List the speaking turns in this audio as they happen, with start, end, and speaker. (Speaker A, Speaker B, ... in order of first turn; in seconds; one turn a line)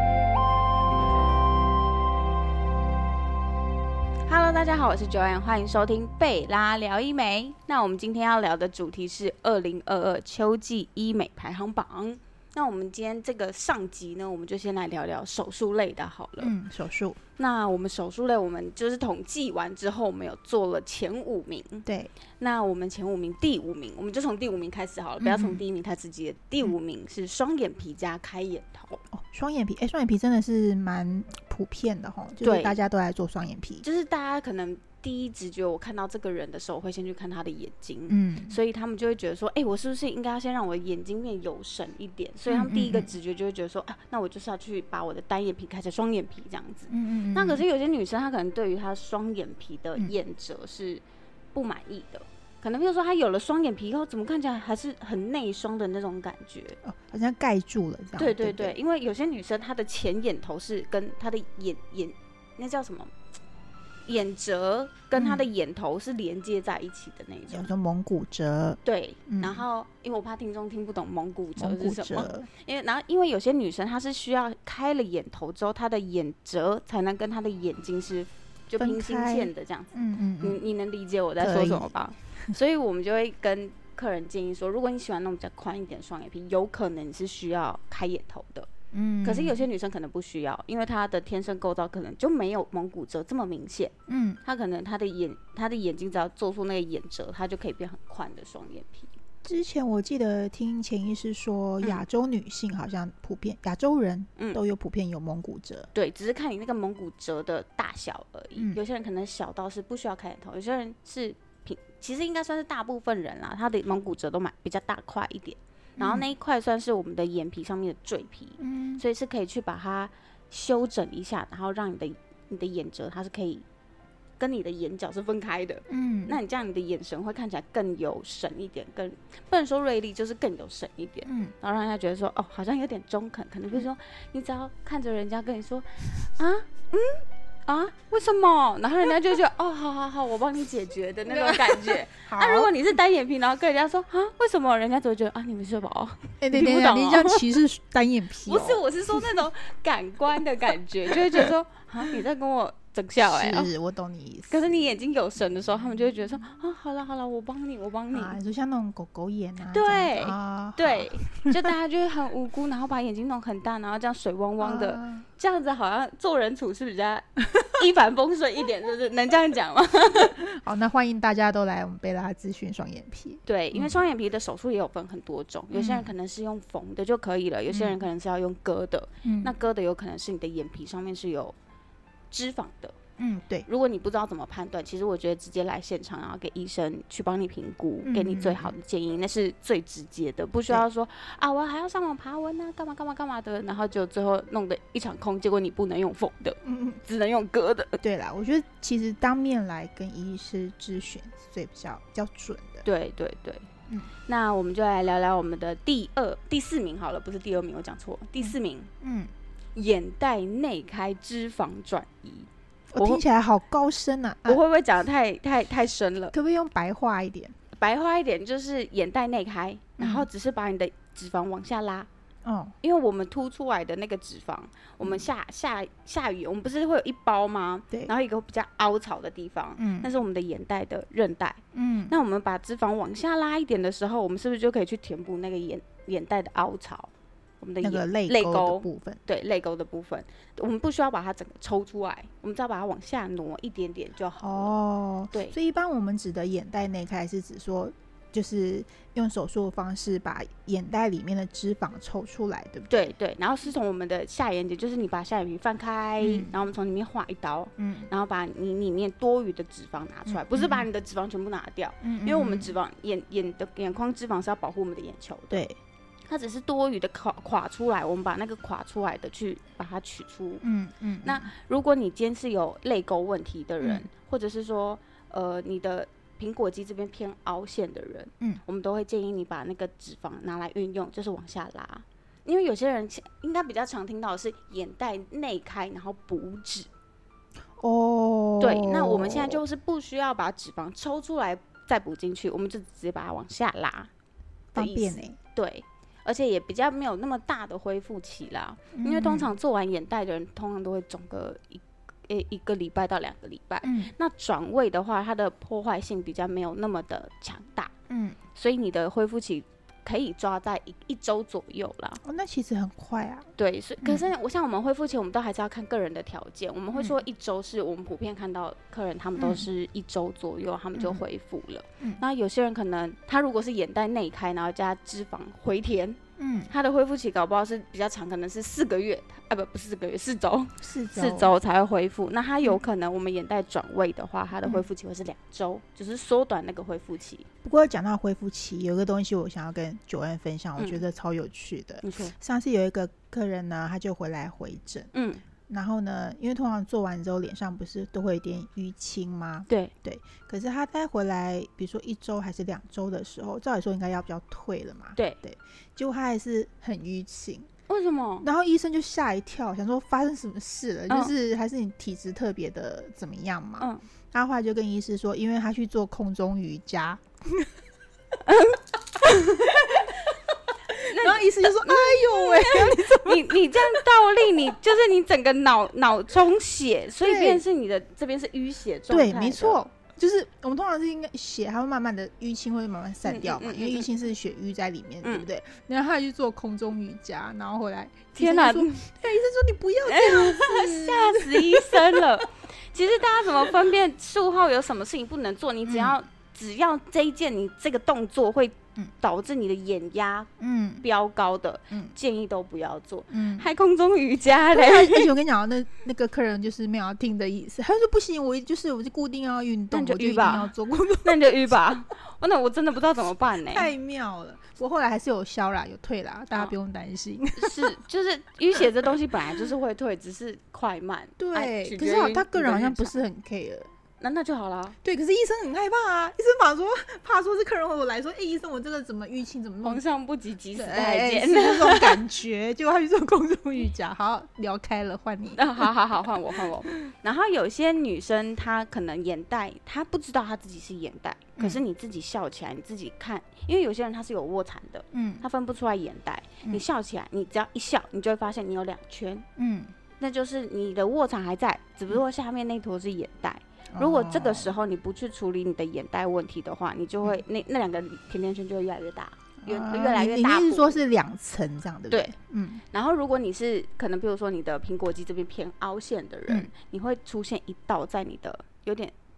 Speaker A: 4.3-16.5
Speaker B: 16.4-17.2
Speaker A: 17.4-21.9
Speaker B: 21.9-22.1
Speaker A: 22.4-29.0
Speaker B: 25.2-25.6
Speaker B: 29.1-33.8
Speaker A: 32.4-32.8
Speaker A: 33.8-51.0
Speaker B: 38.1-38.6
Speaker B: 42.5-43.1
Speaker B: 46.9-47.6
Speaker A: 51.5-56.8
Speaker B: 56.8-58.8
Speaker A: 58.2-63.1
Speaker A: 64.1-67.7
Speaker B: 65.2-65.4
Speaker B: 67.5-69.6
Speaker A: 68.8-88.7
Speaker B: 71.6-72.5
Speaker B: 78.8-80.6
Speaker B: 81.4-81.9
Speaker B: 88.9-89.6
Speaker A: 89.2-93.9
Speaker B: 94.1-94.4
Speaker A: 94.4-99.1
Speaker B: 99.4-105.9
Speaker A: 105.9-123.6
Speaker B: 116.0-116.2
Speaker B: 118.6-119.0
Speaker A: 124.4-147.4
Speaker B: 125.9-126.4
Speaker B: 131.2-131.5
Speaker B: 141.2-142.7
Speaker B: 146.4-149.4
Speaker A: 148.4-153.7
Speaker B: 151.1-151.5
Speaker B: 153.2-154.8
Speaker A: 154.5-158.3
Speaker B: 158.1-161.7
Speaker A: 159.7-170.4
Speaker B: 164.6-165.2
Speaker B: 170.1-174.0
Speaker A: 173.4-181.5
Speaker B: 175.7-176.1
Speaker B: 177.7-178.0
Speaker B: 179.2-179.5
Speaker A: 182.3-182.9
Speaker B: 183.2-183.7
Speaker A: 183.7-198.0
Speaker B: 188.0-188.7
Speaker B: 196.6-197.0
Speaker B: 198.0-202.8
Speaker A: 202.8-203.7
Speaker A: 204.3-208.9
Speaker B: 208.4-209.3
Speaker A: 209.8-213.2
Speaker B: 212.9-214.6
Speaker A: 214.4-216.3
Speaker B: 216.3-217.5
Speaker A: 217.7-222.1
Speaker B: 220.0-220.3
Speaker B: 222.4-222.8
Speaker A: 222.8-244.8
Speaker B: 229.8-230.1
Speaker B: 231.7-232.1
Speaker B: 237.8-239.2
Speaker B: 244.4-253.1
Speaker A: 252.9-265.6
Speaker B: 256.2-256.5
Speaker B: 257.8-258.1
Speaker B: 260.3-260.9
Speaker B: 262.0-262.7
Speaker B: 265.5-265.8
Speaker A: 266.3-270.6
Speaker B: 270.6-271.5
Speaker A: 271.2-286.9
Speaker B: 273.8-274.1
Speaker B: 287.8-289.6
Speaker A: 288.6-294.1
Speaker B: 294.7-295.4
Speaker A: 294.8-307.9
Speaker B: 298.9-299.5
Speaker B: 303.8-304.1
Speaker B: 308.1-308.4
Speaker A: 308.6-312.2
Speaker B: 312.2-313.5
Speaker A: 313.6-337.5
Speaker B: 319.4-319.7
Speaker B: 321.0-321.2
Speaker B: 326.4-326.7
Speaker B: 330.8-331.5
Speaker B: 337.6-345.1
Speaker A: 342.0-342.3
Speaker A: 345.1-345.4
Speaker B: 345.7-357.7
Speaker A: 357.9-358.5
Speaker B: 358.4-367.7
Speaker A: 368.4-370.0
Speaker B: 369.2-374.0
Speaker A: 371.1-379.8
Speaker B: 377.2-377.6
Speaker B: 379.1-392.3
Speaker A: 383.2-384.1
Speaker A: 388.4-389.0
Speaker A: 390.1-400.5
Speaker B: 395.9-396.2
Speaker B: 400.6-401.1
Speaker A: 401.0-405.3
Speaker B: 403.3-403.7
Speaker B: 404.7-411.7
Speaker A: 409.9-410.7
Speaker A: 411.2-413.9
Speaker B: 413.7-417.9
Speaker A: 417.6-423.1
Speaker B: 421.4-423.9
Speaker A: 424.2-424.9
Speaker B: 425.0-430.0
Speaker A: 429.8-432.2
Speaker B: 430.8-435.9
Speaker A: 435.6-449.4
Speaker B: 436.5-437.1
Speaker B: 445.1-445.4
Speaker B: 449.6-449.9
Speaker A: 450.2-461.0
Speaker B: 453.9-454.7
Speaker B: 459.6-462.8
Speaker A: 462.9-469.1